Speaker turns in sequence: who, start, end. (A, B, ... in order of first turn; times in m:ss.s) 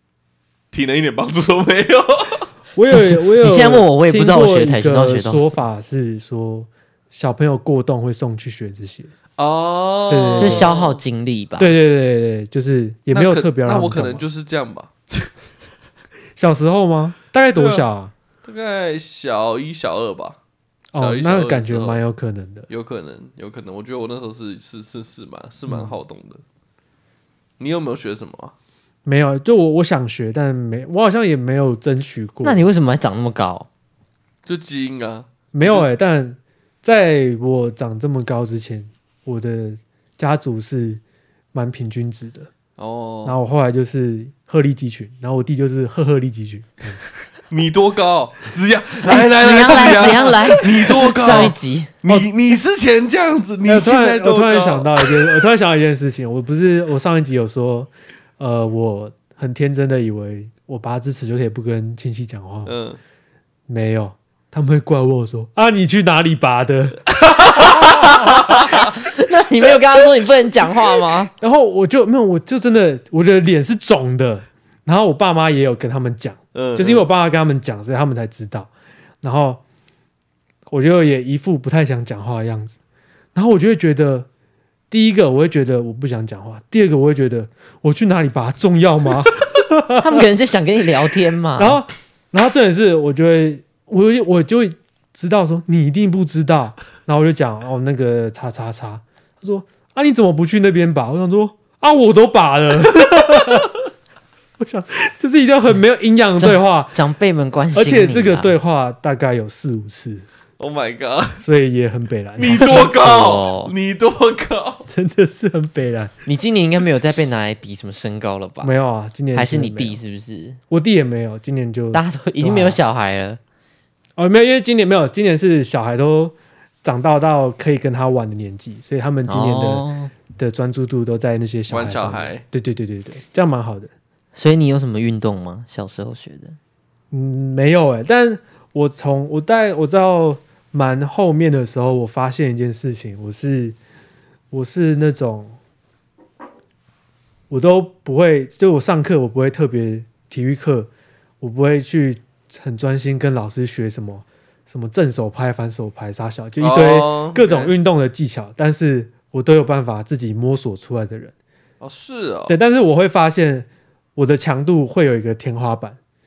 0:00.7-0:02.5 A
0:02.8-0:09.1 B
0:02.9-0:05.6 C
0:09.4-0:11.0 A
0:10.1-0:10.7 B
0:10.4-0:11.8 C
0:11.6-0:14.2 B
0:13.1-0:15.3 A
0:16.4-0:18.1 B
0:17.6-0:17.8 A
0:18.4-0:20.4 A
0:20.9-0:22.7 B
0:21.0-0:22.0 A
0:22.7-0:26.4 A
0:25.7-0:26.0 B
0:27.6-0:28.5 A
0:29.0-0:32.6 B
0:32.4-0:33.7 C
0:34.5-0:35.9 A
0:35.5-0:41.0 B
0:41.5-0:42.5 B
0:42.8-0:43.4 A
0:43.2-0:47.0 B
0:47.5-0:55.4 A
0:49.1-0:51.9 C
0:49.7-0:50.3 B
0:51.1-0:51.5 B
0:53.6-1:02.7 B
1:02.7-1:03.0 A
1:03.7-1:08.1 B
1:07.8-1:11.3 C
1:11.4-1:18.7 B
1:16.6-1:17.1 A
1:19.2-1:19.6 B
1:20.7-1:22.8 B
1:23.4-1:24.3 B
1:24.9-1:30.3 B
1:30.0-1:31.8 C
1:31.6-1:43.7 B
1:44.6-1:47.0 B
1:46.4-1:48.6 C
1:47.8-1:50.3 B
1:50.6-1:51.4 A
1:51.4-1:52.9 B
1:52.4-1:54.9 A
1:52.5-1:53.7 C
1:54.9-1:56.1 B
1:56.3-1:58.7 C
1:58.6-2:00.0 B
1:59.3-2:00.6 C
2:00.7-2:02.8 B
2:01.9-2:03.4 C
2:04.2-2:13.9 B
2:09.3-2:10.1 C
2:11.7-2:12.4 A
2:14.4-2:16.6 C
2:17.1-2:23.8 B
2:24.5-2:25.6 B
2:27.5-2:30.9 B
2:31.4-2:41.3 B
2:36.6-2:37.7 A
2:41.8-2:42.6 A
2:42.5-2:46.0 B